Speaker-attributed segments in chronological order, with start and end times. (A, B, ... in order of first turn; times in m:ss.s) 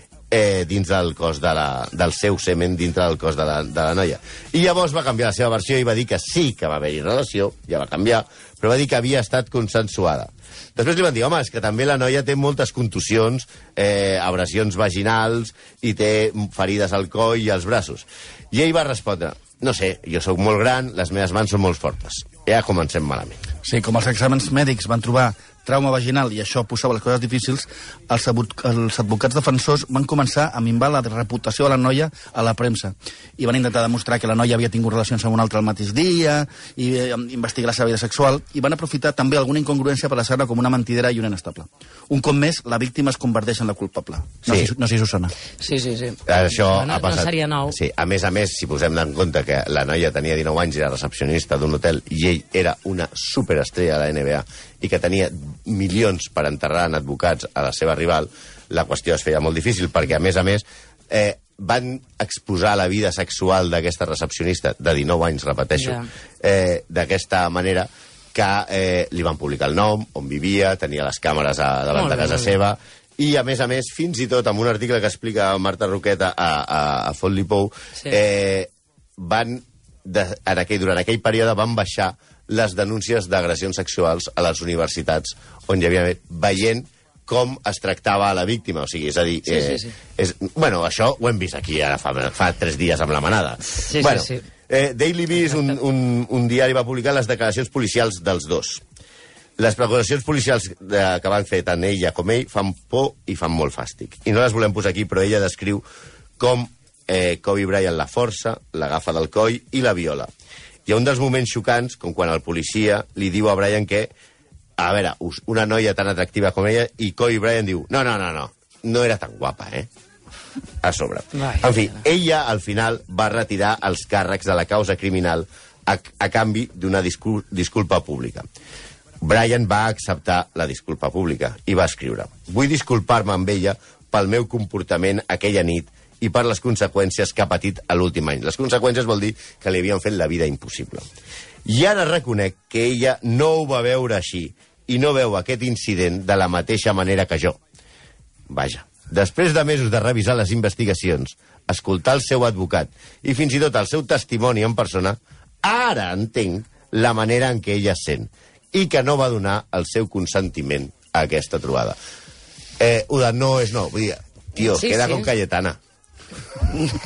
0:00.3-0:23.4 A
0:23.6-0:45.3 B
0:45.6-0:47.8 C
0:46.3-1:38.8 A
1:05.8-1:06.1 C
1:11.9-1:12.5 C
1:29.5-1:29.9 C
1:33.9-1:34.4 C
1:39.6-1:45.8 A
1:46.4-1:50.3 A
1:50.9-1:54.1 A
1:54.8-1:59.9 A
2:00.8-2:08.4 A
2:01.4-2:01.8 C
2:09.2-2:21.0 A
2:21.7-2:27.6 A
2:28.5-2:42.0 A
2:42.8-2:45.8 A
2:44.6-2:45.3 C